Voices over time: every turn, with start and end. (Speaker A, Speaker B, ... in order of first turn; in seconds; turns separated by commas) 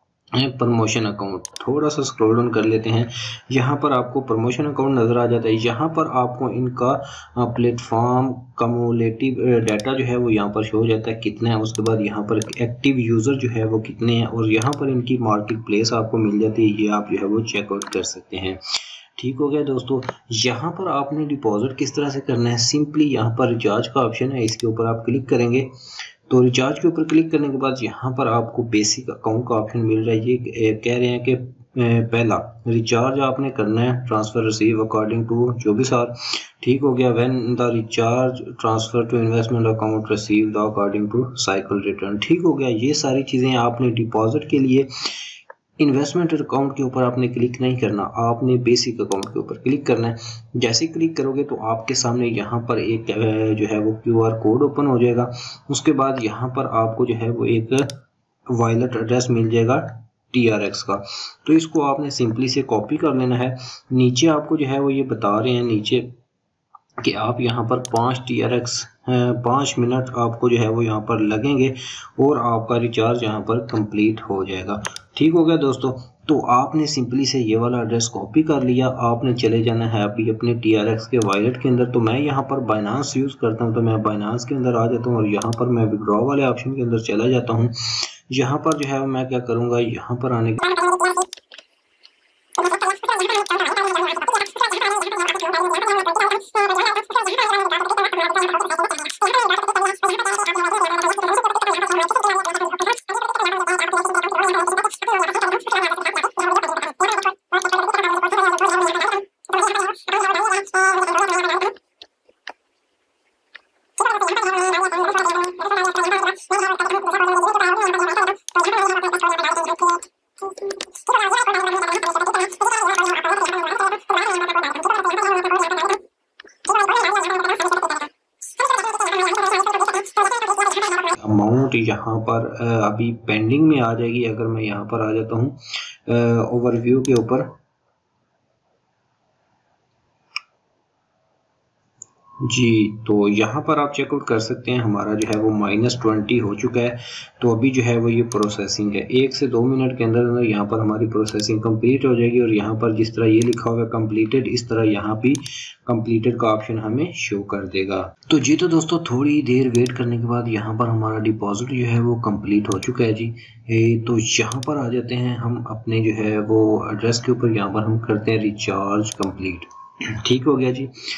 Speaker A: 0.4-18.6, Speaker A: 19.2-25.7, Speaker A: 26.3-44.9, Speaker A: 45.8-57.9, Speaker A: 58.5-66.1, Speaker A: 67.0-90.8, Speaker A: 131.1-137.5, Speaker A: 142.4-169.7, Speaker A: 170.2-170.9